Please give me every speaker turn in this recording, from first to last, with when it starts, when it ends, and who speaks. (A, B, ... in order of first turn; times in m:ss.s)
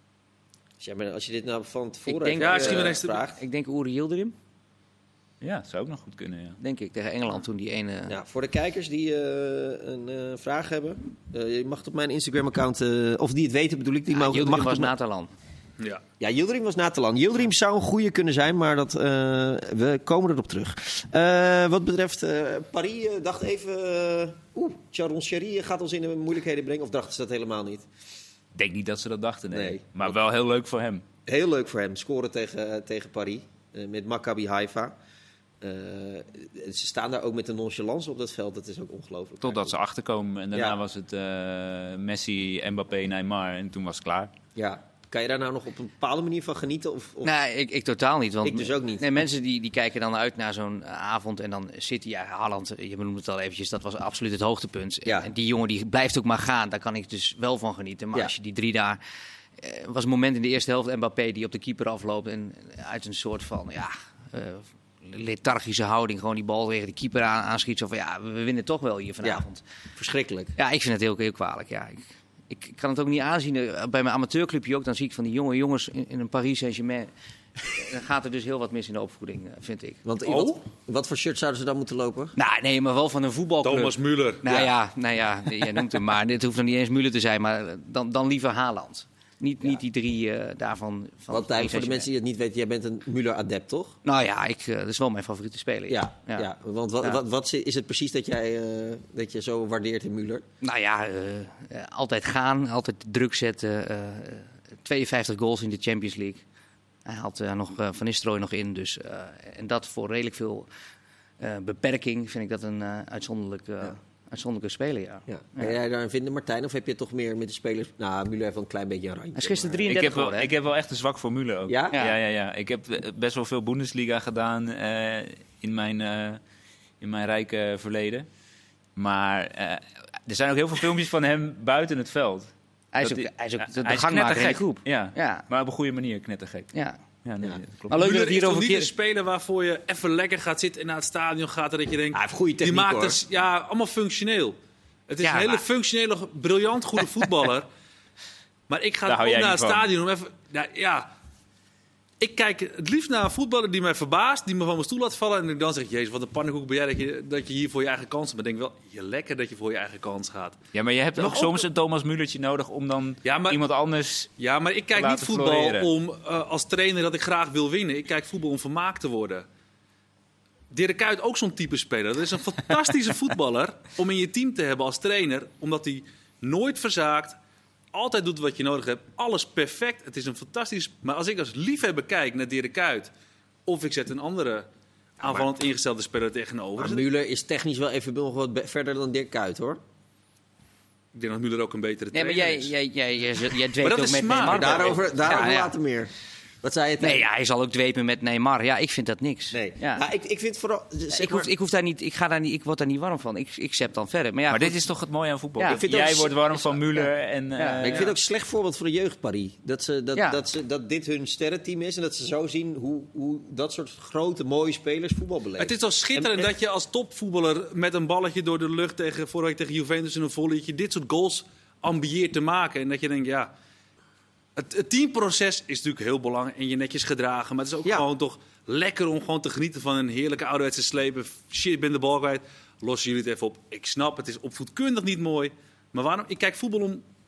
0:00.8-0:03.4 A
0:02.1-0:04.3 B
0:02.4-0:03.2 C
0:05.4-0:06.6 D
0:06.6-0:08.2 B
0:08.1-0:14.9 A
0:14.1-0:15.3 B
0:16.2-0:27.8 A
0:28.5-0:31.0 D
0:29.5-0:30.2 A
0:31.2-0:34.9 A
0:35.6-0:39.8 A
0:39.4-0:44.3 D
0:44.6-0:47.3 A
0:47.2-0:59.0 B
0:48.4-0:49.1 A
0:59.6-1:09.6 B
1:10.0-1:10.5 A
1:10.6-1:20.0 B
1:20.0-1:22.3 A
1:20.2-1:20.5 C
1:22.4-1:32.1 B
1:23.6-1:24.4 C
1:24.4-1:24.7 A
1:31.3-1:34.0 A
1:34.0-1:36.5 B
1:35.9-1:40.4 A
1:40.6-1:46.4 B
1:47.0-1:50.7 B
1:51.4-1:55.7 B
1:55.3-1:59.9 A
1:59.4-2:00.5 B
1:59.9-2:06.4 D
2:01.7-2:02.0 A
2:07.0-2:08.3 D
2:09.0-2:16.7 D
2:12.9-2:15.4 B
2:16.7-2:17.0 B
2:17.2-2:18.0 D
2:17.9-2:18.9 B
2:17.9-2:24.6 C
2:22.1-2:23.2 A
2:25.1-2:27.7 C
2:25.2-2:25.6 B
2:28.7-2:31.1 C
2:29.1-2:29.9 D
2:32.2-2:40.6 C
2:40.7-2:44.3 D
2:41.2-2:41.6 C
2:43.2-2:43.6 C
2:44.4-2:49.4 C
2:44.9-2:45.9 D
2:50.7-2:57.4 C
2:57.9-3:03.1 C
3:03.6-3:04.7 C
3:05.2-3:07.0 C
3:06.8-3:09.8 A
3:11.1-3:12.7 C
3:12.1-3:15.7 B
3:13.8-3:15.0 C
3:14.5-3:16.1 A
3:16.6-3:17.2 A
3:17.0-3:20.0 B
3:19.5-3:21.5 A
3:21.1-3:24.8 B
3:24.5-3:28.1 D
3:25.6-3:25.8 B
3:25.7-3:26.4 A
3:27.0-3:27.9 B
3:27.8-3:36.5 A
3:30.1-3:30.4 B
3:35.6-3:43.5 C
3:44.6-3:57.0 C